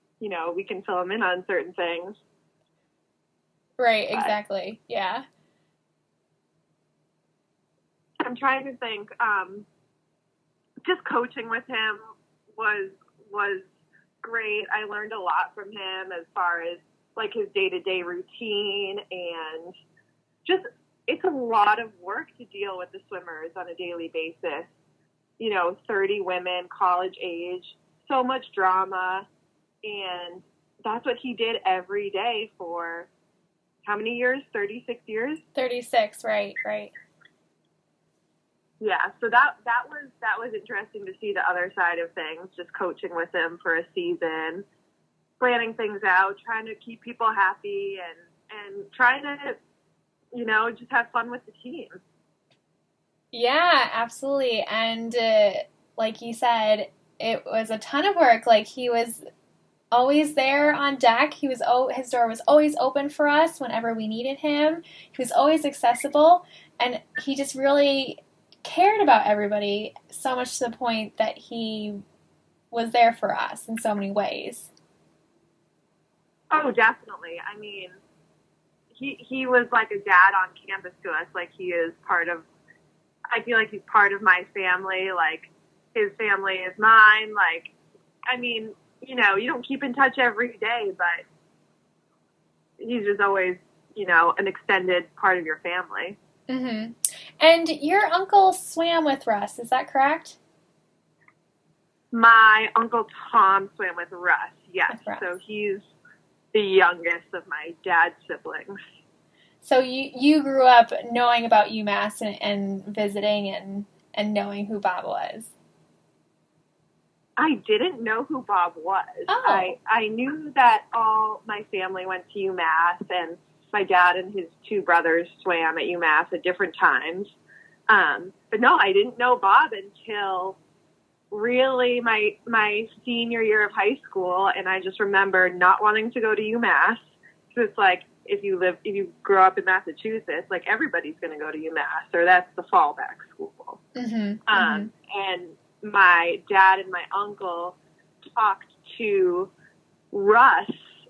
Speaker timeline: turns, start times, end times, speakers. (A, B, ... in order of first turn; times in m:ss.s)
0:00.2-0:02.2 A
0:03.8-0:05.2 B
0:08.2-0:09.7 A
0:10.9-0:12.0 A
0:12.6-0:13.7 A
0:14.2-0:19.7 A
0:20.4-0:24.7 A
0:25.4-0:29.2 A
0:29.8-0:33.1 A
0:33.9-0:35.4 A
0:35.6-0:36.9 B
0:38.8-0:44.6 A
0:45.4-0:49.6 A
0:50.3-0:52.0 A
0:53.3-0:59.2 B
0:59.9-1:12.0 B
1:12.7-1:14.7 B
1:16.5-1:18.0 A
1:18.9-1:22.4 A
1:23.3-1:27.7 A
1:28.3-1:31.2 A
1:32.8-1:36.2 A
1:36.5-1:40.4 B
1:42.1-1:45.9 A
1:44.9-1:45.2 B
1:46.5-1:48.8 A
1:49.6-1:55.5 B
1:57.4-2:07.3 A
1:59.3-1:59.7 B
2:07.9-2:10.6 A
2:11.3-2:17.0 A
2:17.5-2:23.8 A
2:24.0-2:24.9 B
2:24.5-2:27.8 A
2:28.4-2:29.5 A
2:30.1-2:30.7 A